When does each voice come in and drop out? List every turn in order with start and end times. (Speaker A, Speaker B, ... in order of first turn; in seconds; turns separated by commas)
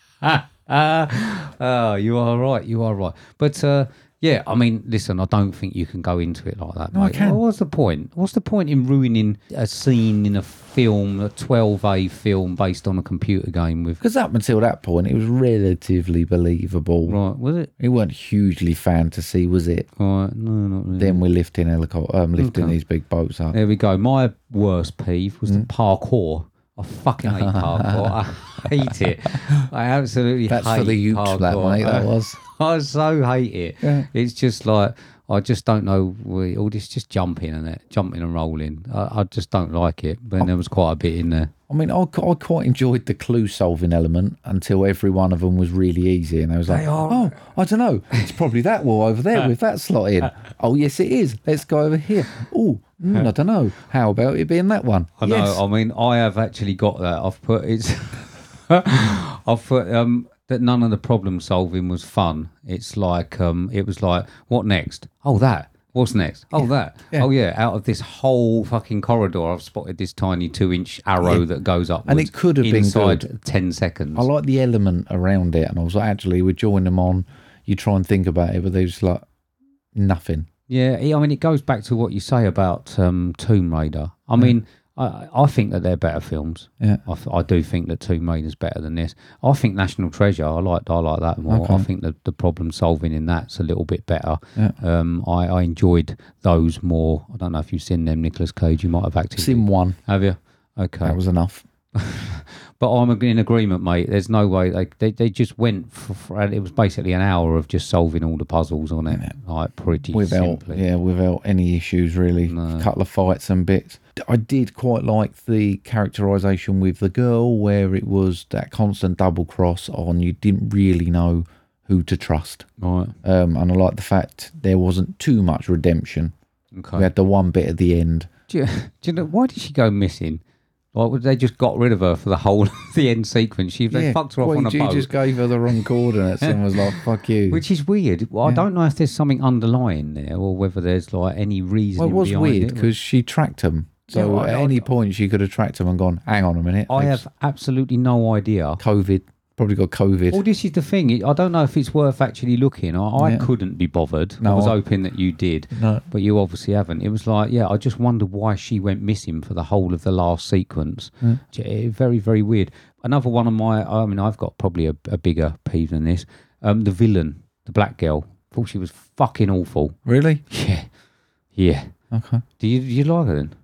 Speaker A: 0.2-14.0, Speaker B: 6.9-7.4, Speaker B: 14.0-17.2, Speaker A: 17.1-17.7, Speaker B: 17.8-19.9, Speaker A: 20.0-21.2, Speaker B: 21.0-23.6, Speaker A: 22.4-22.8, Speaker A: 23.5-41.5, Speaker B: 27.2-28.1, Speaker B: 30.5-32.4, Speaker B: 33.8-34.1, Speaker B: 41.7-55.6, Speaker A: 46.7-47.3, Speaker A: 55.2-74.3, Speaker B: 72.0-73.3, Speaker B: 74.1-79.2, Speaker B: 79.9-80.5, Speaker A: 80.7-101.2, Speaker B: 91.5-91.9, Speaker B: 99.4-100.0, Speaker B: 101.0-101.7, Speaker A: 101.9-110.8, Speaker B: 110.1-122.7, Speaker A: 112.5-112.9, Speaker A: 122.8-123.2, Speaker B: 123.2-126.3, Speaker A: 126.7-127.1, Speaker B: 127.0-128.3, Speaker A: 128.5-130.4, Speaker A: 130.9-135.1, Speaker B: 133.9-137.6, Speaker A: 136.4-142.9, Speaker B: 142.0-147.2, Speaker A: 144.1-144.9, Speaker A: 146.9-148.8, Speaker B: 148.8-150.4, Speaker A: 150.3-170.0, Speaker B: 153.2-153.5, Speaker B: 154.4-154.8, Speaker B: 155.7-156.0, Speaker B: 170.1-170.4, Speaker A: 170.5-170.9, Speaker A: 171.5-171.9, Speaker B: 172.1-172.4, Speaker A: 172.6-173.5